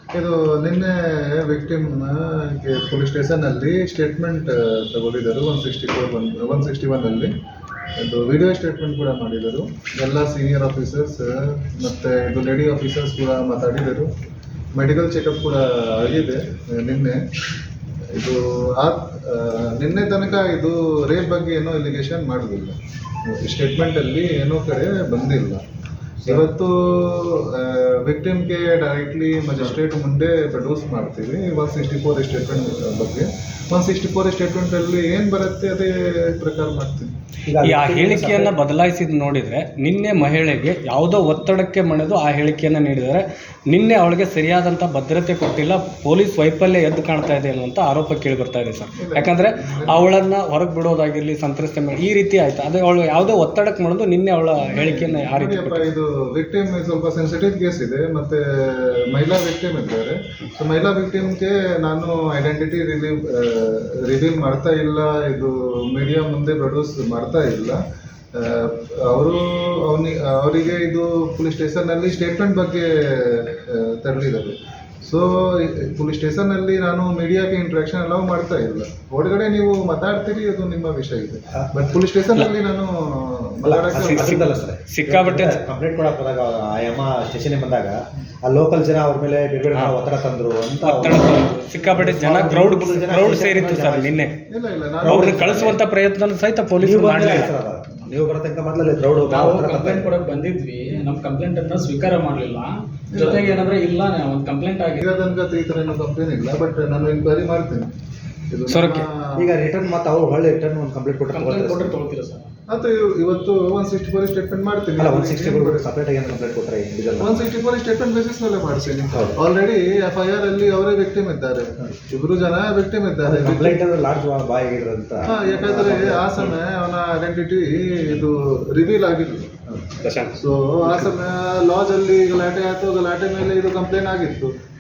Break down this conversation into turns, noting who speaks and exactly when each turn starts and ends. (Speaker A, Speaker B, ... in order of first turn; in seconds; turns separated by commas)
Speaker A: 0.1-7.3, Speaker A: 8.0-14.1, Speaker A: 14.8-17.2, Speaker A: 18.1-25.6, Speaker A: 26.2-37.1, Speaker B: 37.5-38.5, Speaker C: 37.6-55.9, Speaker A: 49.0-50.1, Speaker A: 54.6-67.8, Speaker A: 68.3-84.6, Speaker B: 83.7-94.2, Speaker C: 84.0-85.6, Speaker C: 90.8-94.3, Speaker A: 94.5-95.7, Speaker B: 95.0-95.8, Speaker C: 95.0-97.5, Speaker B: 96.8-100.1, Speaker C: 99.3-100.2, Speaker D: 99.4-102.7, Speaker A: 103.1-103.7, Speaker C: 103.2-103.7, Speaker D: 103.3-105.0, Speaker A: 105.0-107.9, Speaker A: 108.5-109.5, Speaker C: 108.7-109.0, Speaker B: 109.4-112.0, Speaker D: 111.4-112.5, Speaker A: 112.7-115.9, Speaker B: 115.0-117.4, Speaker A: 117.2-123.8, Speaker B: 119.1-119.4, Speaker B: 123.3-126.5, Speaker A: 125.3-129.6, Speaker C: 130.0-130.4, Speaker A: 130.4-134.5